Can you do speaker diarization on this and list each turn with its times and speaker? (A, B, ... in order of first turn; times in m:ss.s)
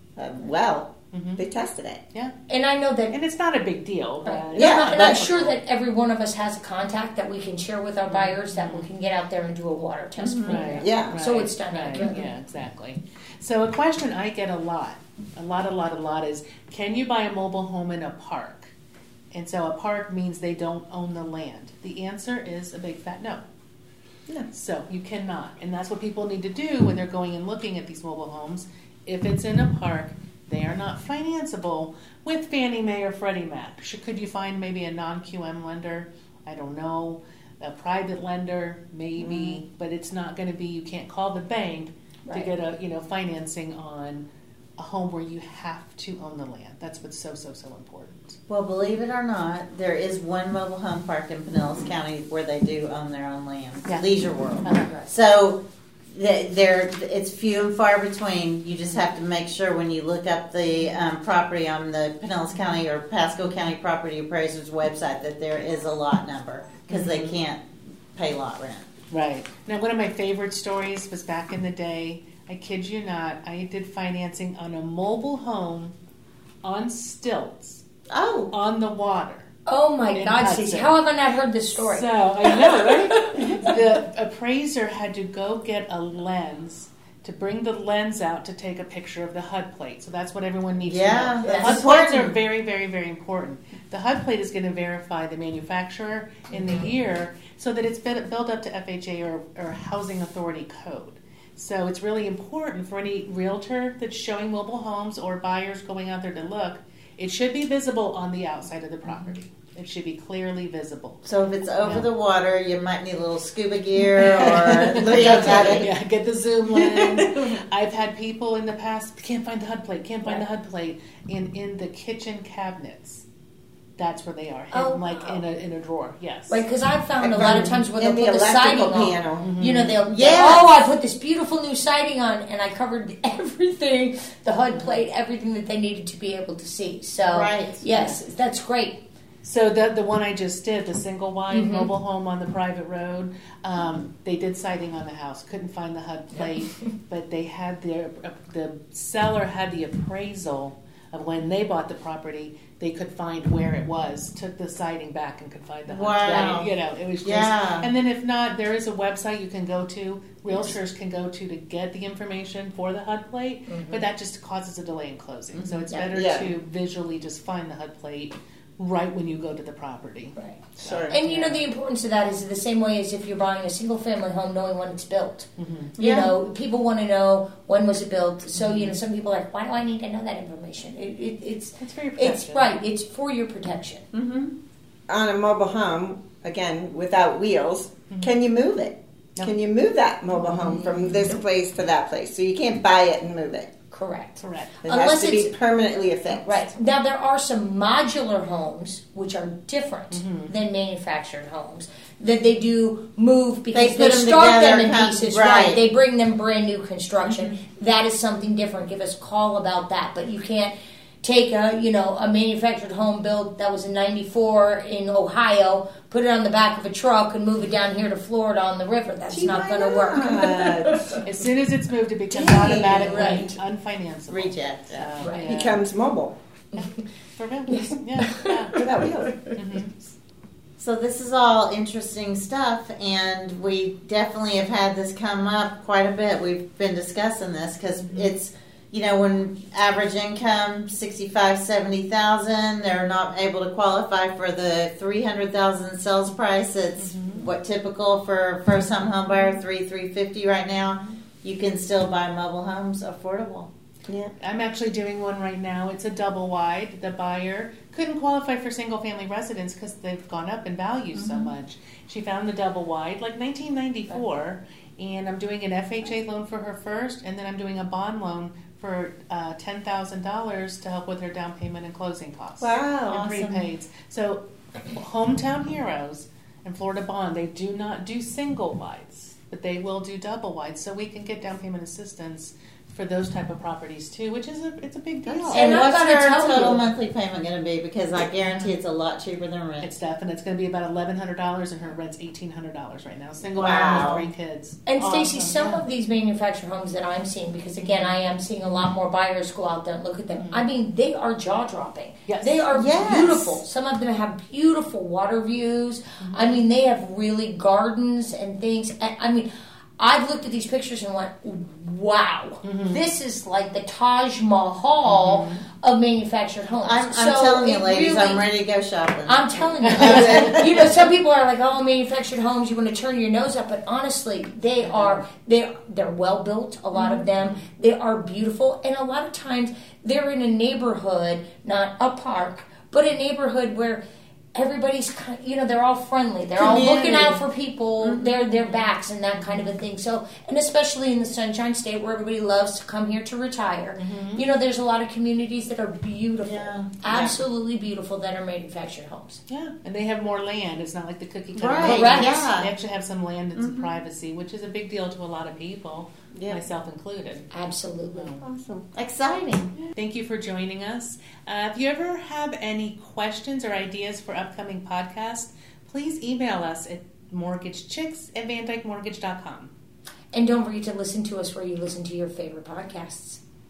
0:00.2-0:02.0 A
0:01.1-0:01.4 B
0:02.5-0:03.2 C
0:03.1-0:05.6 B
0:04.2-0:12.3 C
0:04.6-0:05.2 A
0:08.1-0:08.9 B
0:10.2-0:10.7 D
0:10.5-0:18.7 B
0:10.8-0:11.2 A
0:19.3-0:23.4 B
0:24.5-0:44.2 B
0:39.2-0:39.6 A
0:44.8-0:48.4 B
0:48.5-0:55.6 D
0:54.6-0:55.1 B
0:56.1-1:08.9 D
1:06.9-1:07.4 B
1:09.1-1:15.9 B
1:16.6-1:17.8 B
1:18.1-1:18.5 D
1:18.5-1:19.5 B
1:19.7-1:23.7 C
1:20.1-1:20.9 B
1:21.8-1:51.2 B
1:30.8-1:32.3 D
1:31.4-1:31.8 C
1:36.5-1:36.9 C
1:49.1-1:49.3 D
1:51.2-1:55.9 D
1:51.8-1:52.1 B
1:54.2-2:03.2 B
1:54.8-1:55.8 A
1:56.9-1:57.5 A
2:04.0-2:06.6 B
2:04.7-2:05.4 C
2:06.5-2:19.0 C
2:07.2-2:09.5 A
2:07.4-2:07.7 B
2:09.4-2:10.0 B
2:10.1-2:10.7 D
2:14.7-2:15.0 B
2:17.3-2:17.8 D
2:17.9-2:18.2 B
2:19.4-2:51.6 B
2:21.5-2:21.9 C
2:35.9-2:36.7 D
2:36.3-2:36.6 C
2:37.2-2:37.9 D
2:43.7-2:44.1 C
2:45.5-2:45.9 D
2:46.1-2:46.5 A
2:50.4-3:04.0 C
2:50.8-2:51.2 A
2:55.6-2:55.9 B
2:56.0-2:56.3 D
2:58.6-2:59.0 B
3:01.8-3:02.8 B
3:04.1-3:04.5 D
3:05.1-3:13.7 A
3:10.5-3:11.4 C
3:13.9-3:15.5 C
3:14.4-3:14.8 B
3:14.8-3:16.7 A
3:16.4-3:41.2 C
3:20.1-3:20.6 B
3:23.7-3:25.8 D
3:27.2-3:27.6 B
3:39.3-3:41.1 A
3:41.2-3:45.8 B
3:42.3-3:43.6 A
3:42.4-3:43.5 C
3:44.3-3:45.0 D
3:45.2-3:45.5 C
3:45.4-3:46.4 A
3:46.7-3:47.0 C
3:46.8-3:48.8 B
3:47.7-3:49.5 C
3:48.8-3:49.4 A
3:49.6-3:50.1 B
3:50.8-4:13.7 D
3:58.0-3:58.3 B
4:07.0-4:07.5 B
4:14.4-4:45.7 B
4:21.2-4:21.5 D
4:32.6-4:33.2 A
4:33.1-4:33.7 D
4:45.3-4:49.9 D
4:45.5-4:46.8 C
4:48.4-4:48.7 B
4:49.8-4:55.8 B
4:53.6-4:54.3 A
4:53.6-4:54.1 D
4:54.9-5:09.5 C
5:00.4-5:00.6 B
5:02.3-5:03.3 B
5:02.7-5:03.6 A
5:06.2-5:06.6 B
5:10.0-5:18.4 C
5:12.6-5:13.0 B
5:15.1-5:15.6 B
5:16.8-5:20.1 D
5:19.3-5:34.0 C
5:19.8-5:20.6 B
5:20.0-5:20.5 A
5:24.8-5:25.2 B
5:26.9-5:27.3 D
5:27.4-5:27.6 B
5:34.6-5:49.4 C
5:36.6-5:37.4 D
5:38.0-5:38.4 D
5:39.4-5:39.8 B
5:44.0-5:44.5 B
5:46.4-5:47.0 D
5:47.1-5:47.4 A
5:49.5-5:57.5 B
5:51.6-5:52.7 D
5:51.8-5:52.4 C
5:53.6-5:53.9 D
5:56.3-5:56.6 A
5:57.5-5:58.3 C
5:58.1-5:58.5 B
5:58.4-5:58.9 A
5:58.9-5:59.7 D
5:59.8-6:09.7 B
6:10.3-6:13.4 C